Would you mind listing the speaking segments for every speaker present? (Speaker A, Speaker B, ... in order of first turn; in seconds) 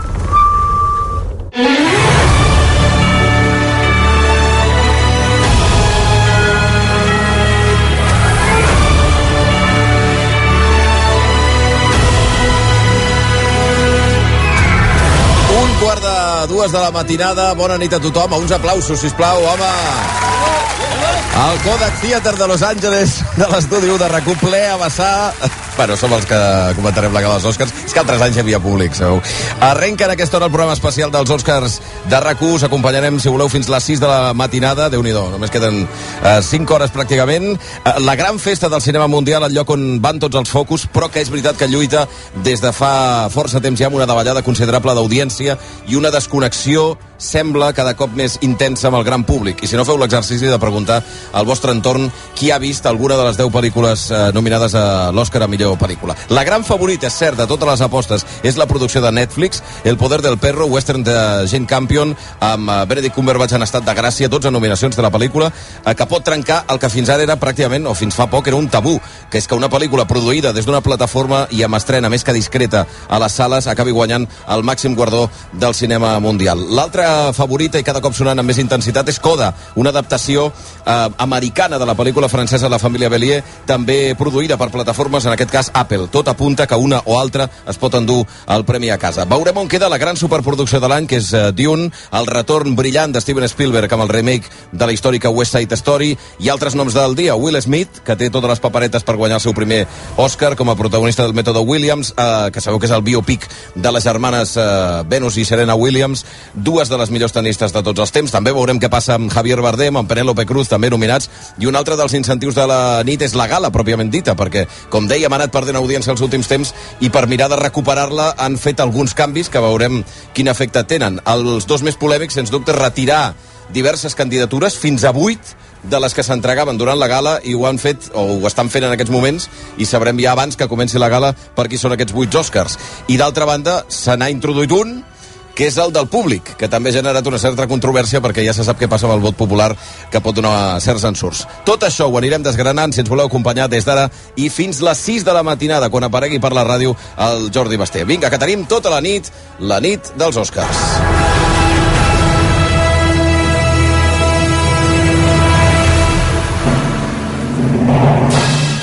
Speaker A: 15.5-20.2, 21.3-151.0